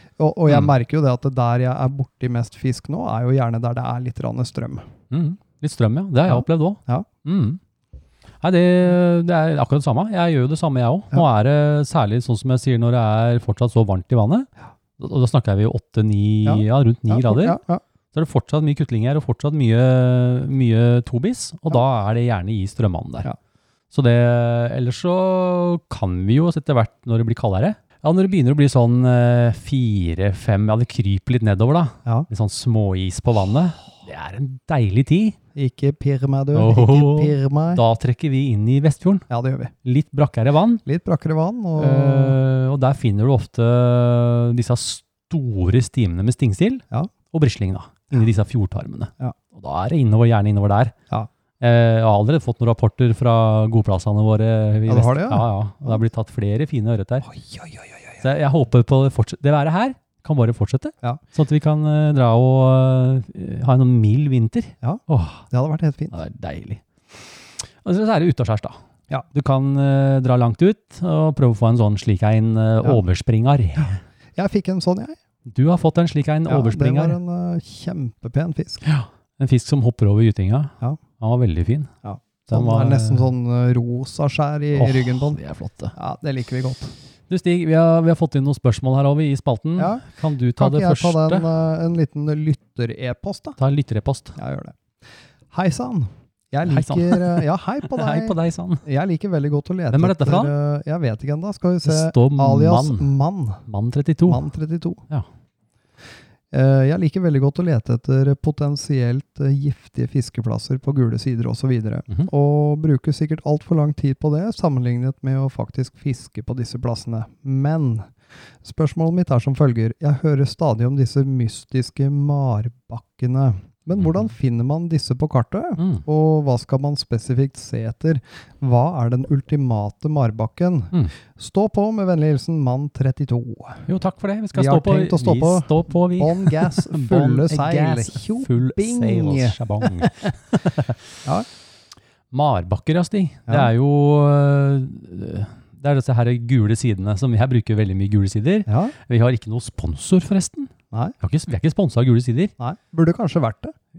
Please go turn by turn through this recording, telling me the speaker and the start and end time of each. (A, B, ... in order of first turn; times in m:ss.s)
0:00.2-0:04.8 A
0:05.1-0:07.6 B
0:06.3-0:07.1 A
0:08.4-0:17.6 B
0:16.4-0:17.8 A
0:18.1-0:23.3 B
0:23.9-0:35.4 B
0:35.6-0:37.8 A
0:36.5-0:39.3 B
0:39.3-0:39.7 A
0:39.8-0:40.8 B
0:40.8-0:42.4 A
0:41.8-0:50.9 B
0:51.6-0:57.3 B
0:54.9-0:56.0 A
0:57.2-0:58.2 A
0:58.2-1:05.5 B
1:04.8-1:06.2 A
1:06.1-1:08.8 B
1:09.3-1:14.0 B
1:14.4-1:15.2 A
1:15.5-1:17.2 B
1:16.5-1:18.8 A
1:18.8-1:21.9 B
1:22.0-1:25.4 A
1:22.5-1:23.3 B
1:24.7-1:26.0 B
1:26.0-1:26.9 A
1:27.3-1:31.5 B
1:29.8-1:30.0 A
1:30.6-1:33.6 A
1:33.6-1:34.4 B
1:34.4-1:34.8 A
1:35.5-1:43.6 A
1:36.7-1:38.8 B
1:39.9-1:40.5 B
1:41.8-1:43.1 B
1:43.7-1:44.4 B
1:44.3-1:45.0 A
1:46.5-1:58.1 A
1:58.6-2:13.9 A
2:04.0-2:04.3 B
2:05.8-2:06.0 B
2:13.9-2:21.0 B
2:14.5-2:20.1 A
2:22.3-2:32.5 B
2:28.7-2:28.9 A
2:32.6-2:33.8 A